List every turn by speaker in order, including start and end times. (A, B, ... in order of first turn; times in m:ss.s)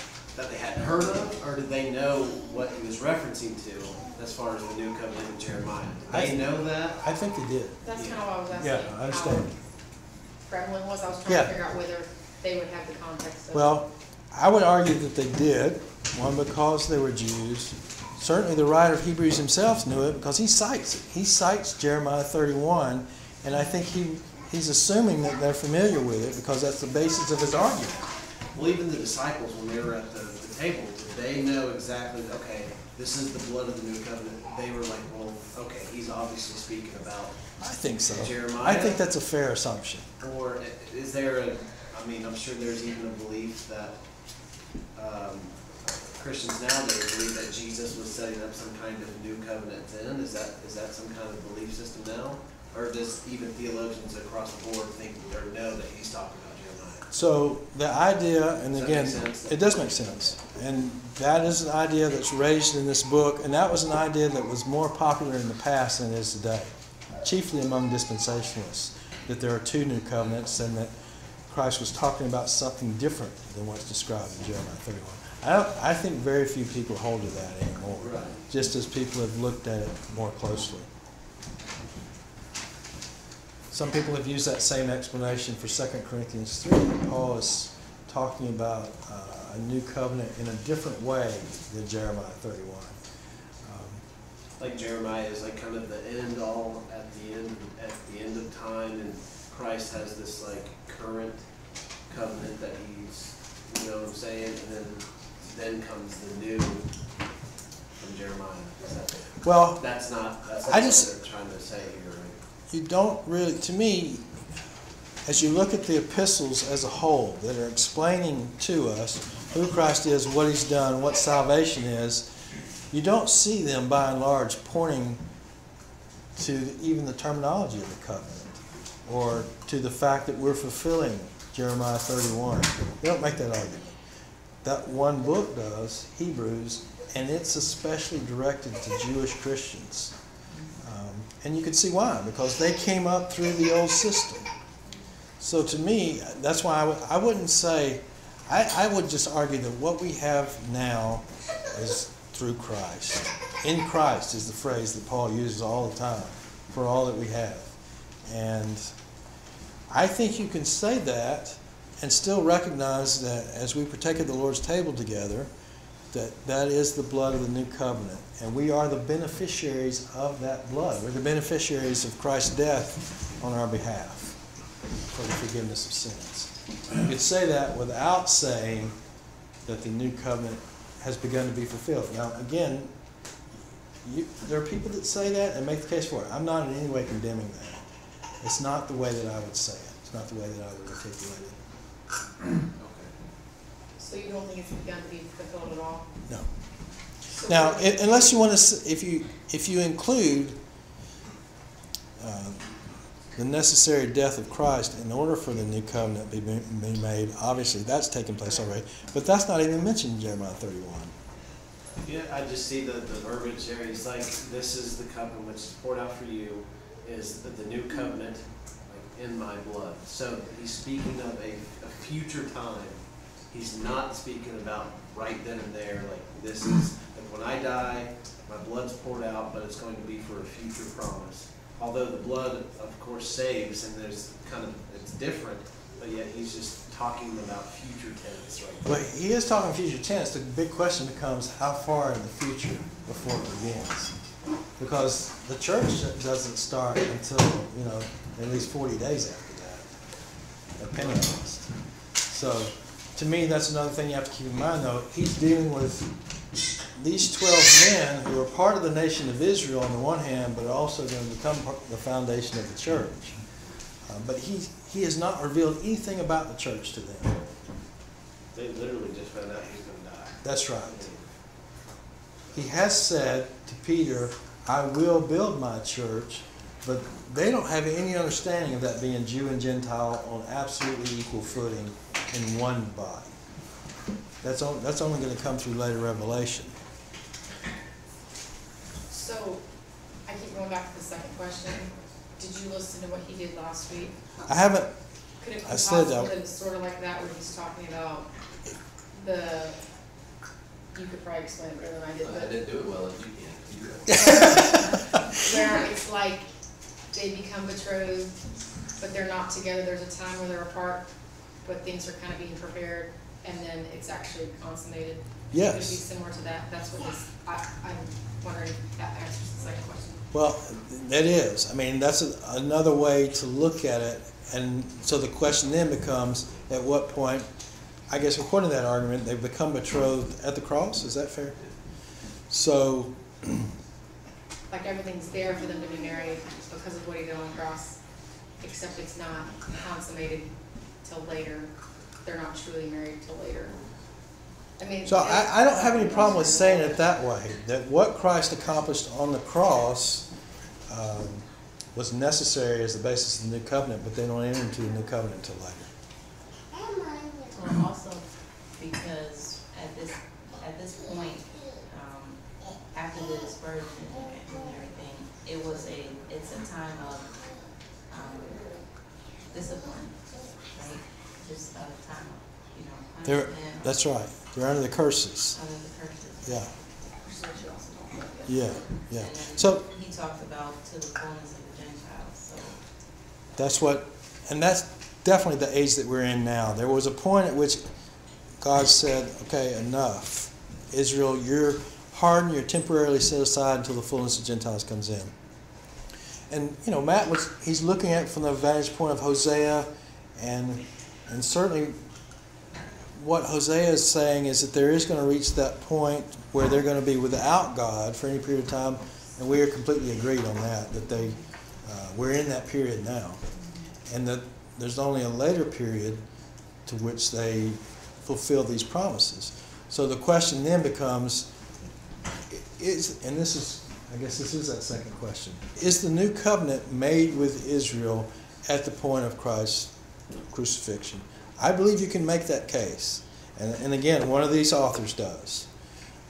0:00.3-0:07.0 A
0:06.1-0:07.8 B
0:07.8-0:09.5 C
0:07.9-0:08.2 A
0:08.5-0:09.5 B
0:10.5-0:13.8 C
0:11.3-0:11.5 B
0:13.5-0:28.1 B
0:28.5-0:37.4 A
0:37.6-0:40.1 B
0:38.1-0:39.0 A
0:40.2-0:44.0 A
0:45.0-0:45.6 A
0:46.1-0:57.1 A
0:57.1-1:06.7 B
0:58.7-0:59.8 A
1:07.2-1:10.9 B
1:11.5-1:20.9 B
1:18.0-1:18.4 A
1:23.7-1:33.0 B
1:33.6-1:34.0 B
1:34.6-1:41.4 A
1:42.1-1:46.9 A
1:48.0-1:52.4 A
1:49.4-1:49.8 B
1:50.7-1:51.1 B
1:52.7-1:54.3 B
1:55.2-2:02.3 B
2:02.9-2:05.2 B
2:06.4-2:14.0 B
2:14.6-2:20.2 B
2:20.8-2:24.5 B
2:25.4-2:37.7 B
2:38.3-2:38.9 B
2:39.9-2:45.5 B
2:46.1-2:54.4 B
2:55.1-2:59.0 B
2:59.7-3:02.9 B
3:04.0-3:07.8 B
3:08.4-3:11.6 B
3:12.8-3:13.1 A
3:14.0-3:16.1 C
3:17.3-3:18.3 C
3:17.5-3:20.6 B
3:22.2-3:22.7 B
3:23.4-3:31.1 B
3:32.0-3:59.0 A
3:58.8-4:04.2 B
4:04.8-4:09.9 B
4:10.8-4:11.7 B
4:12.3-4:16.1 B
4:17.0-4:23.4 B
4:24.1-4:27.5 B
4:28.5-4:31.2 A
4:30.4-4:31.1 B
4:32.5-4:43.3 B
4:44.4-4:46.7 B
4:49.1-4:49.6 C
4:50.2-4:54.5 C
4:54.5-4:54.9 B
4:55.4-4:58.3 C
4:55.6-4:56.3 B
4:59.2-4:59.8 C
5:00.9-5:02.5 C
5:02.2-5:04.8 D
5:04.1-5:05.4 B
5:04.1-5:06.5 C
5:07.1-5:08.3 C
5:09.0-5:11.1 C
5:11.6-5:20.2 C
5:15.5-5:16.0 B
5:20.3-5:27.5 B
5:28.1-5:31.6 B
5:32.5-5:33.7 B
5:34.7-5:38.0 C
5:38.6-5:40.5 C
5:41.0-5:41.7 C
5:42.2-5:43.8 C
5:44.8-5:47.0 C
5:45.0-5:50.3 B
5:50.9-5:55.9 B
5:57.5-6:07.3 E
6:08.1-6:08.9 E
6:09.5-6:10.2 E
6:10.7-6:13.9 E
6:13.2-6:15.6 B
6:15.5-6:16.7 E
6:16.5-6:16.7 B
6:17.2-6:18.8 C
6:18.5-6:19.8 B
6:19.2-6:22.8 E
6:23.6-6:27.8 B
6:28.6-6:35.3 B
6:36.5-6:42.0 B
6:43.2-6:53.4 B
6:54.1-6:56.2 B
6:56.9-7:01.5 B
7:02.5-7:09.9 B
7:10.5-7:15.7 B